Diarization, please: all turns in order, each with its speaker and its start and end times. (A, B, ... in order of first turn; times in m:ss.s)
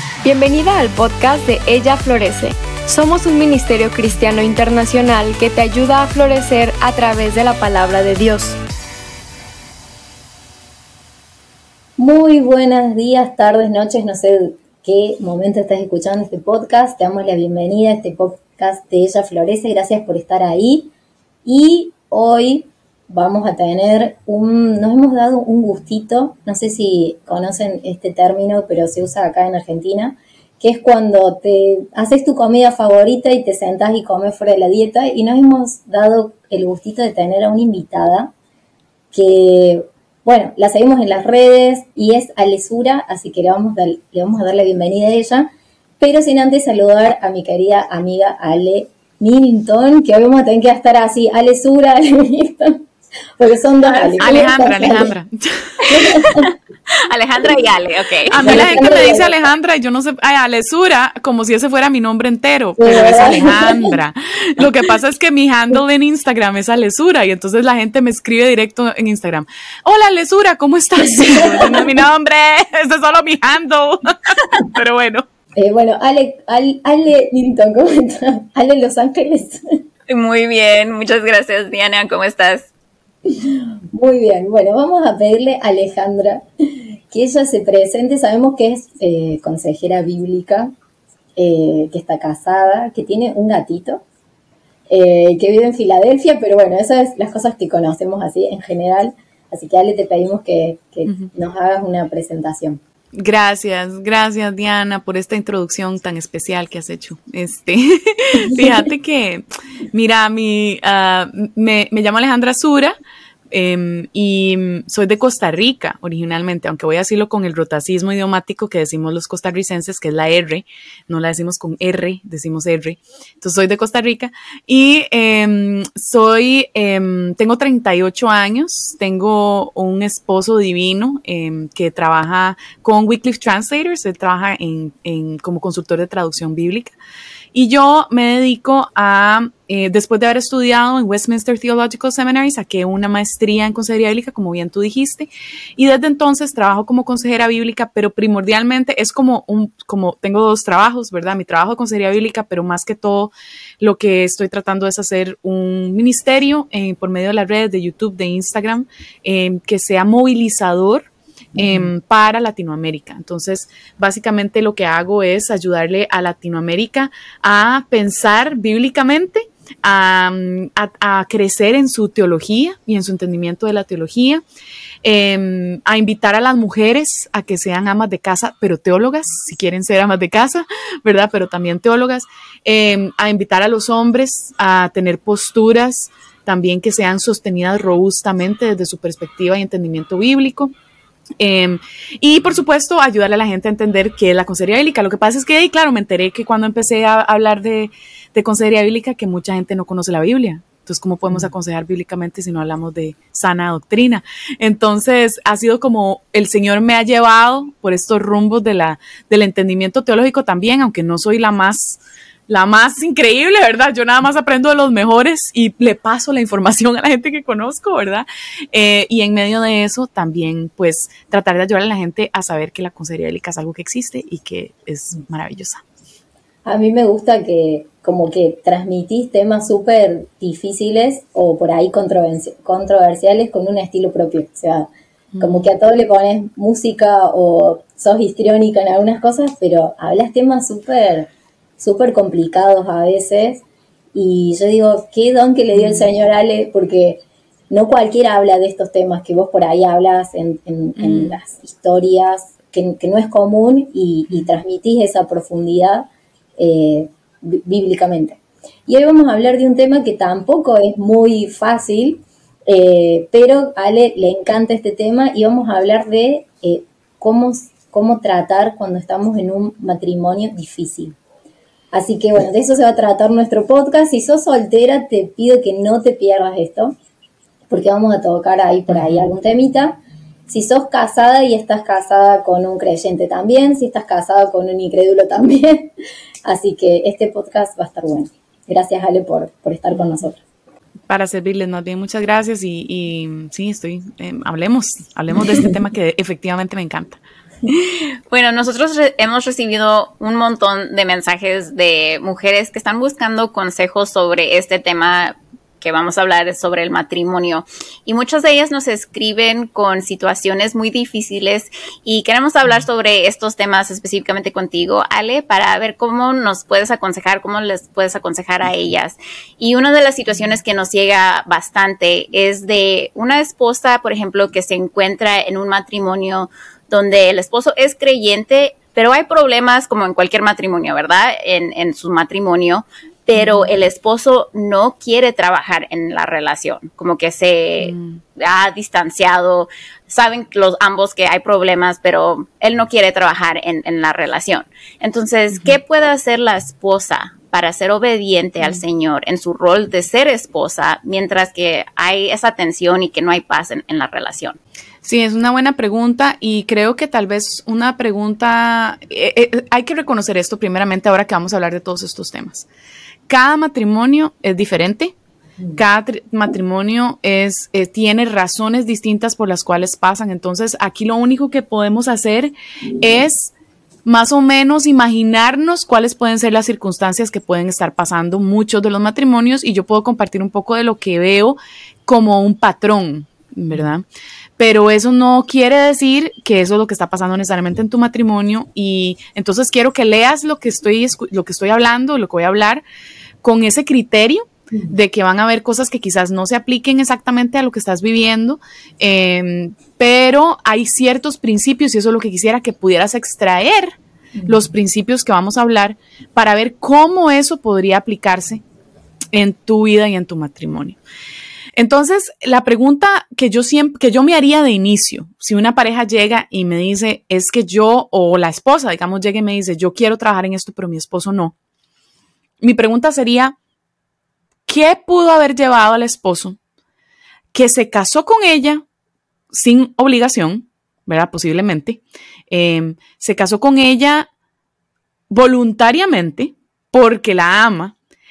0:00.2-0:08.6 A
0:12.0-0:20.9 B
0:21.4-0:38.3 B
0:39.1-0:52.8 B
0:53.4-0:55.1 B
0:54.0-0:54.5 C
0:54.2-0:56.2 D
0:55.9-0:56.5 B
0:57.0-0:58.9 C
0:58.3-1:15.3 D
0:58.4-0:59.4 B
1:02.8-1:03.9 B
1:11.1-1:11.9 B
1:15.6-1:19.6 B
1:20.1-1:22.7 C
1:23.3-1:30.7 B
1:31.4-1:34.0 B
1:34.9-1:42.8 B
1:43.2-1:53.0 D
1:53.5-2:16.9 D
2:17.5-2:54.4 D
2:41.6-2:41.9 B
2:55.0-3:10.7 D
3:11.4-3:45.8 D
3:46.7-3:54.9 B
3:55.3-3:55.7 D
3:55.4-4:03.6 B
4:04.1-4:31.2 B
4:05.7-4:06.1 D
4:11.0-4:11.4 D
4:31.9-4:37.0 B
4:37.7-4:45.9 B
4:38.9-4:39.2 D
4:46.4-4:50.4 B
4:51.1-4:57.2 D
4:57.7-5:54.6 C
5:33.4-5:33.7 D
5:55.0-6:02.7 D
6:03.3-6:05.1 D
6:05.8-6:13.5 D
6:14.0-6:24.1 D
6:24.6-6:32.8 D
6:33.4-6:48.6 D
6:49.3-6:51.0 D
6:51.8-7:01.6 D
7:02.6-7:03.6 D
7:04.7-7:06.6 D
7:07.5-7:08.8 D
7:09.5-7:14.3 D
7:15.3-7:17.9 D